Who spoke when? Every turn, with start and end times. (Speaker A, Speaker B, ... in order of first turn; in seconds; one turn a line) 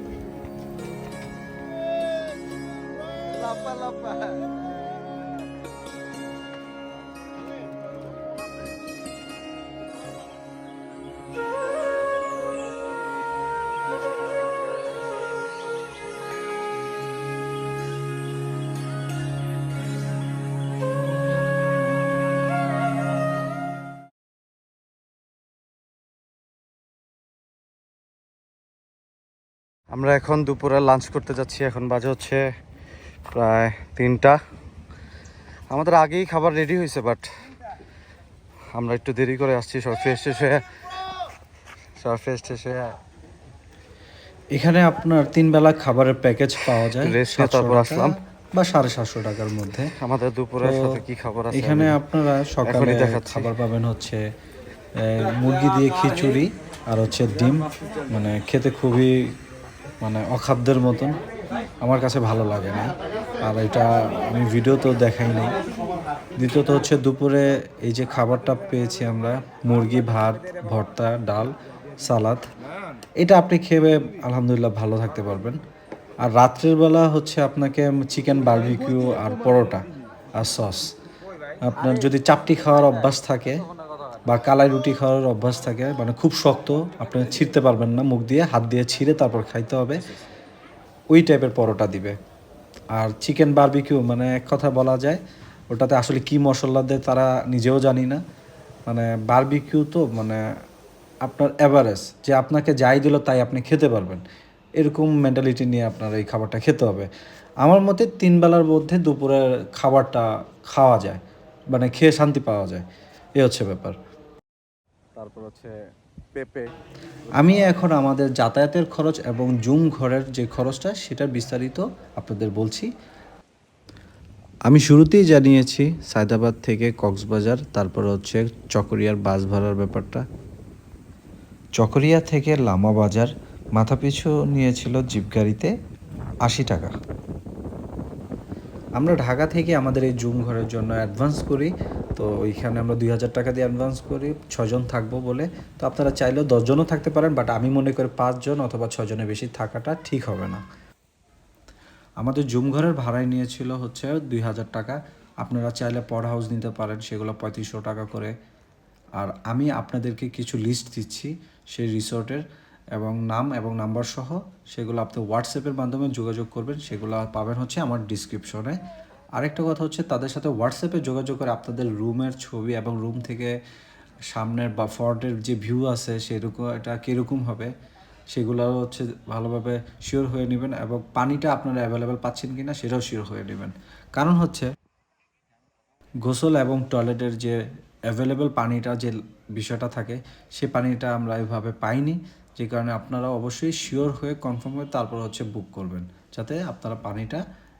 Speaker A: 3.4-4.4
Speaker A: 29.9-32.5
Speaker A: 33.3-34.4
Speaker A: 35.7-37.5
Speaker A: 38.7-40.8
Speaker A: 42.0-43.0
Speaker B: 44.5-49.9
Speaker A: 46.9-48.2
Speaker A: 49.9-52.0
Speaker B: 50.6-51.0
Speaker B: 51.5-54.3
Speaker A: 52.6-53.5
Speaker B: 55.0-59.3
Speaker B: 60.0-61.2
Speaker B: 61.8-65.6
Speaker B: 66.4-72.4
Speaker B: 73.2-75.6
Speaker B: 76.3-80.9
Speaker B: 81.6-83.7
Speaker A: 81.8-84.3
Speaker B: 84.2-90.1
Speaker B: 91.1-92.2
Speaker B: 93.0-98.2
Speaker B: 98.9-100.4
Speaker B: 101.2-104.2
Speaker B: 104.8-107.1
Speaker B: 107.6-112.9
Speaker B: 113.4-114.0
Speaker A: 115.2-115.8
Speaker A: 116.3-116.7
Speaker A: 117.3-117.9
Speaker B: 117.3-122.9
Speaker B: 124.7-130.3
Speaker B: 131.8-135.7
Speaker B: 136.4-136.9
Speaker B: 139.0-150.6
Speaker B: 152.2-158.3
Speaker B: 159.2-162.4
Speaker B: 163.0-168.8
Speaker B: 169.4-173.6
Speaker B: 174.3-177.7
Speaker B: 178.3-184.7
Speaker B: 186.2-197.4